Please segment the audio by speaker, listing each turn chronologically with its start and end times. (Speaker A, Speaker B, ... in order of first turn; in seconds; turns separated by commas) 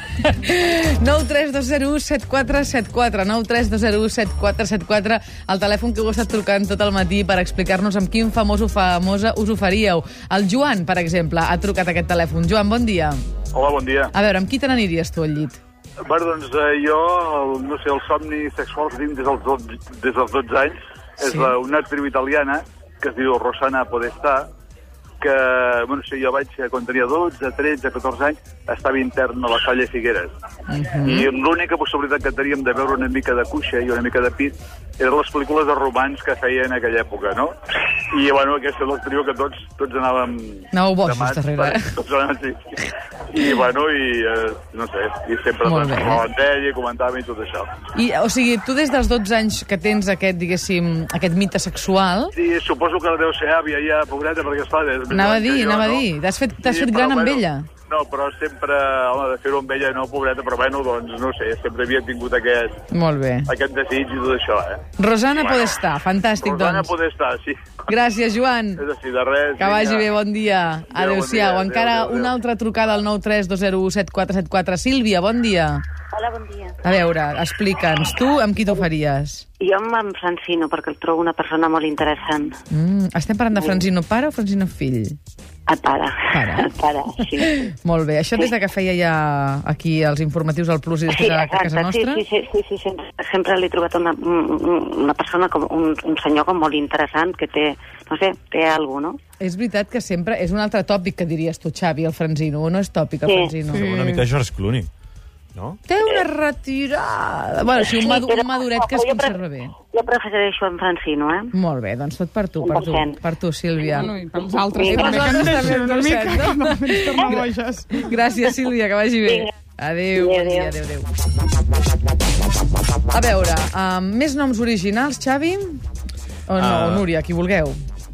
Speaker A: 0.2-13.2, Speaker B: 13.5-14.1, Speaker A: 14.1-15.6, Speaker B: 16.1-24.5, Speaker A: 21.2-21.5, Speaker B: 25.2-30.3, Speaker A: 30.7-31.3, Speaker B: 31.0-37.5, Speaker B: 38.1-42.8, Speaker A: 40.7-42.0, Speaker B: 43.3-47.7, Speaker A: 45.6-46.3, Speaker A: 48.0-52.3, Speaker B: 52.4-56.1, Speaker A: 55.1-57.7, Speaker B: 56.6-62.8, Speaker A: 62.9-63.5, Speaker B: 63.5-64.8, Speaker A: 65.0-66.9, Speaker B: 65.4-65.7, Speaker B: 66.4-67.6, Speaker A: 67.9-68.8, Speaker B: 68.8-70.1, Speaker A: 69.6-75.8, Speaker B: 70.9-72.3, Speaker C: 76.1-76.7, Speaker A: 76.8-79.5, Speaker C: 79.6-82.6, Speaker A: 82.7-85.2, Speaker C: 83.5-83.8, Speaker C: 85.7-87.7, Speaker A: 86.3-86.7, Speaker A: 87.2-92.3, Speaker C: 91.1-99.2, Speaker A: 99.4-103.9, Speaker C: 103.3-103.5, Speaker D: 103.7-104.3, Speaker E: 103.7-104.9, Speaker E: 105.5-105.8, Speaker A: 105.9-109.7, Speaker C: 107.9-109.4, Speaker C: 109.9-111.5, Speaker A: 111.5-114.1, Speaker C: 112.6-113.2, Speaker D: 113.9-118.1, Speaker A: 114.8-117.4, Speaker A: 118.0-121.1, Speaker C: 120.1-120.7, Speaker A: 123.1-125.8, Speaker A: 126.5-127.8, Speaker E: 126.6-127.1